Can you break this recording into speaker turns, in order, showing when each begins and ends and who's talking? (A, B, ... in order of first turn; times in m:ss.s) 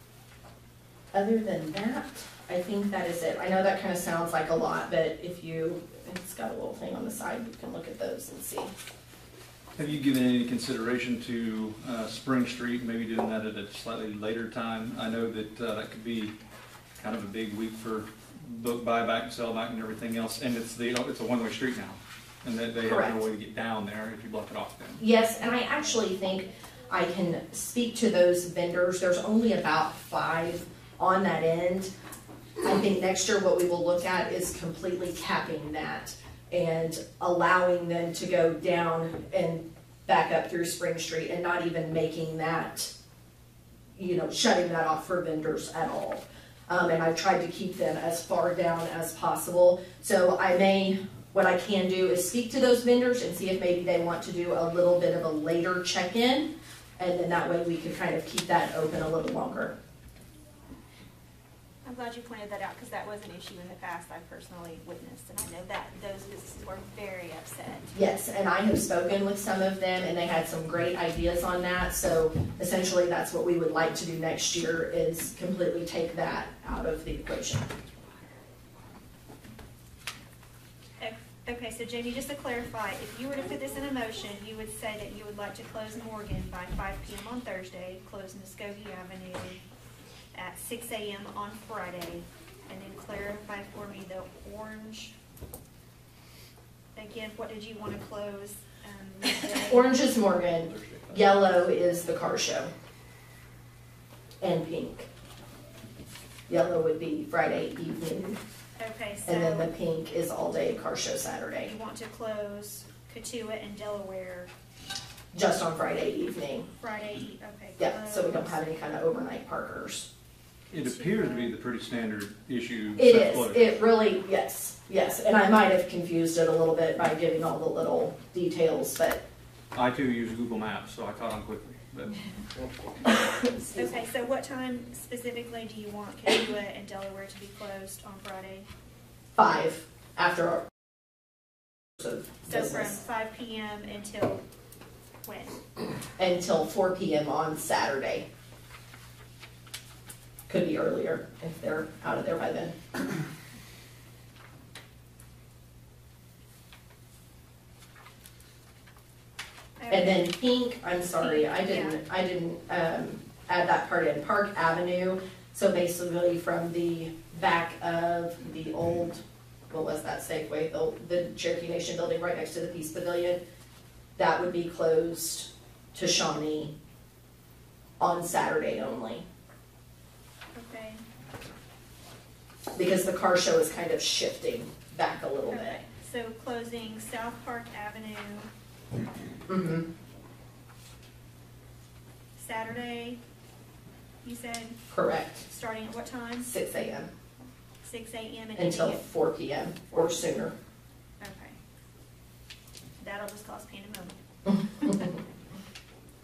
0:01.1-0:08.7 A
0:09.8-0:16.3 B
0:17.0-0:25.0 B
0:22.8-0:23.2 A
0:25.0-0:31.9 A
0:32.6-0:42.9 A
0:43.9-0:59.8 A
1:01.8-1:07.9 C
1:07.9-1:17.7 A
1:21.0-1:29.6 C
1:30.3-1:35.1 C
1:36.9-1:39.9 C
1:39.6-1:42.7 A
1:40.5-1:41.4 B
1:44.4-1:45.1 A
1:46.5-1:48.4 A
1:48.8-1:49.7 C
1:49.2-1:51.7 A
1:51.6-1:54.5 C
1:55.3-1:56.7 A
1:56.8-1:58.6 C
1:57.8-2:00.1 A
2:00.7-2:03.7 B
2:00.8-2:01.6 C
2:03.0-2:09.2 A
2:09.7-2:12.2 B
2:13.0-2:13.9 A
2:13.7-2:18.7 C
2:19.4-2:20.6 A
2:22.0-2:23.0 A
2:22.5-2:24.4 C
2:25.2-2:25.6 C
2:26.2-2:28.3 A
2:30.5-2:32.8 A
2:39.8-2:40.3 C
2:39.9-2:53.4 A
2:41.2-2:42.0 C
2:54.2-2:56.7 A
2:58.0-2:59.2 A
3:00.5-3:01.0 C
3:02.7-3:05.8 A
3:05.5-3:08.5 C
3:09.5-3:09.9 A
3:12.4-3:13.2 C
3:14.2-3:14.8 C
3:14.9-3:15.4 A
3:15.5-3:16.5 C
3:16.4-3:17.1 A
3:17.8-3:19.0 C
3:18.6-3:20.5 A
3:21.2-3:21.6 C
3:23.0-3:24.2 C
3:24.5-3:25.1 A
3:24.8-3:25.2 C